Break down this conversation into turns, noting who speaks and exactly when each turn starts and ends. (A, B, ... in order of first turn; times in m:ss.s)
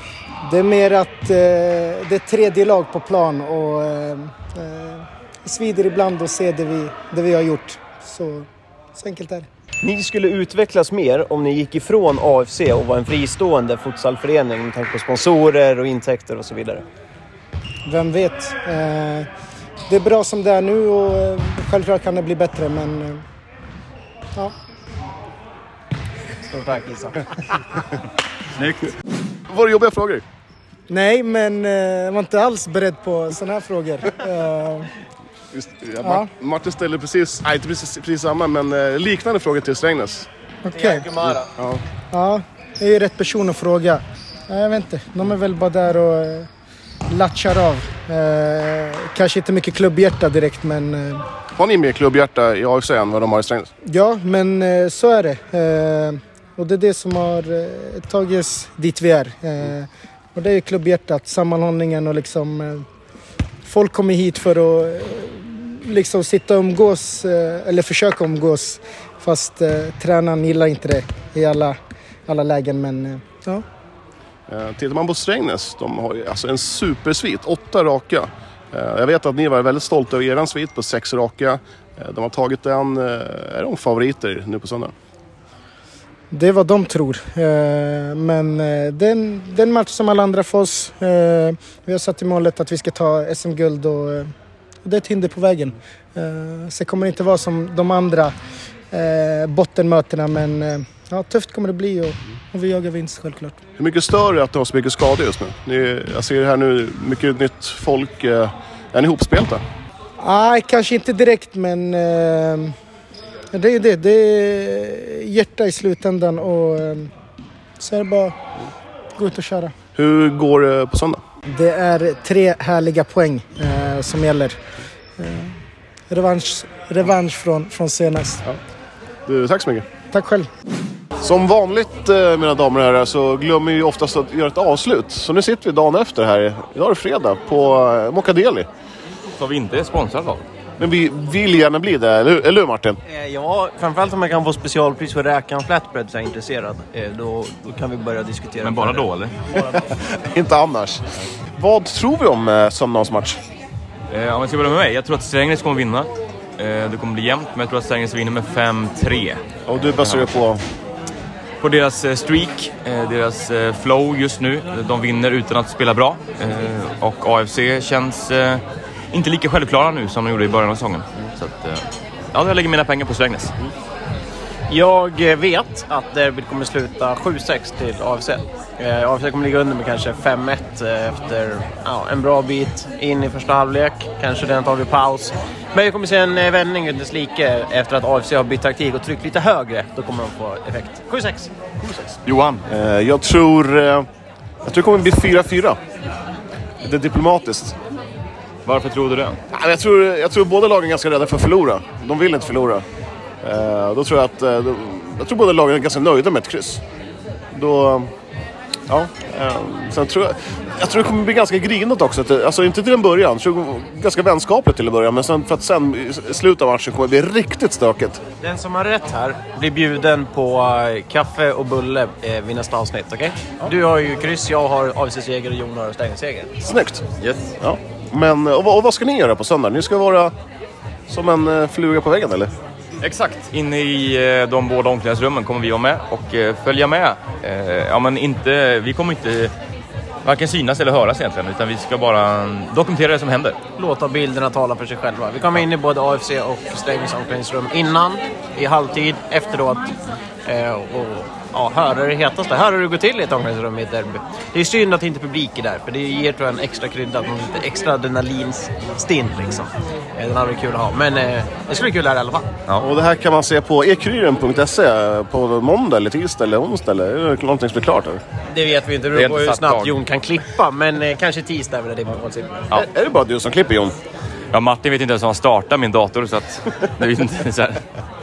0:00.4-0:09.5 A
0:09.8-0:16.8 B
0:17.8-0:19.3 A
0:19.9-0:23.2 A
0:26.4-0:27.3 B
0:29.5-0:30.2 C
0:30.9-0:34.9 A
0:35.5-0:40.3 C
0:36.0-0:36.3 A
0:40.6-0:41.1 A
0:40.7-0:41.4 B
0:41.3-0:41.8 C
0:42.1-0:46.5 A
0:47.1-0:51.2 A
0:51.6-0:53.7 C
0:53.8-1:02.8 A
1:03.6-1:13.6 A
1:14.5-1:24.9 C
1:26.3-1:34.3 A
1:34.8-1:38.3 A
1:38.9-1:43.6 A
1:43.8-1:49.6 C
1:50.2-1:52.7 A
1:53.5-1:57.1 A
1:57.8-1:58.4 A
1:59.2-1:59.7 A
2:00.0-2:01.2 C
2:01.5-2:04.6 A
2:05.2-2:08.5 A
2:09.2-2:09.8 C
2:10.1-2:10.5 A
2:11.2-2:18.7 C
2:19.4-2:20.4 D
2:20.8-2:23.0 C
2:23.0-2:29.1 B
2:28.6-2:29.3 D
2:29.6-2:33.4 C
2:34.1-2:39.4 D
2:39.6-2:40.6 C
2:40.0-2:40.4 D
2:41.6-2:53.5 D
2:54.7-3:11.5 B
3:11.8-3:14.1 C
3:12.2-3:12.6 D
3:14.6-3:15.8 C
3:16.8-3:17.8 C
3:18.6-3:19.4 D
3:19.5-3:22.8 C
3:23.4-3:26.8 C
3:27.5-3:28.1 C
3:28.9-3:38.2 C
3:38.4-3:46.5 B
3:46.6-3:47.0 C
3:47.2-3:47.5 D
3:47.6-3:50.3 C
3:51.1-3:52.5 C
3:53.0-3:59.5 D
4:00.2-4:03.6 D
4:03.8-4:22.6 B
4:22.8-4:28.2 C
4:28.5-4:32.7 B
4:29.1-4:30.0 D
4:32.7-4:33.9 C
4:34.5-4:37.9 D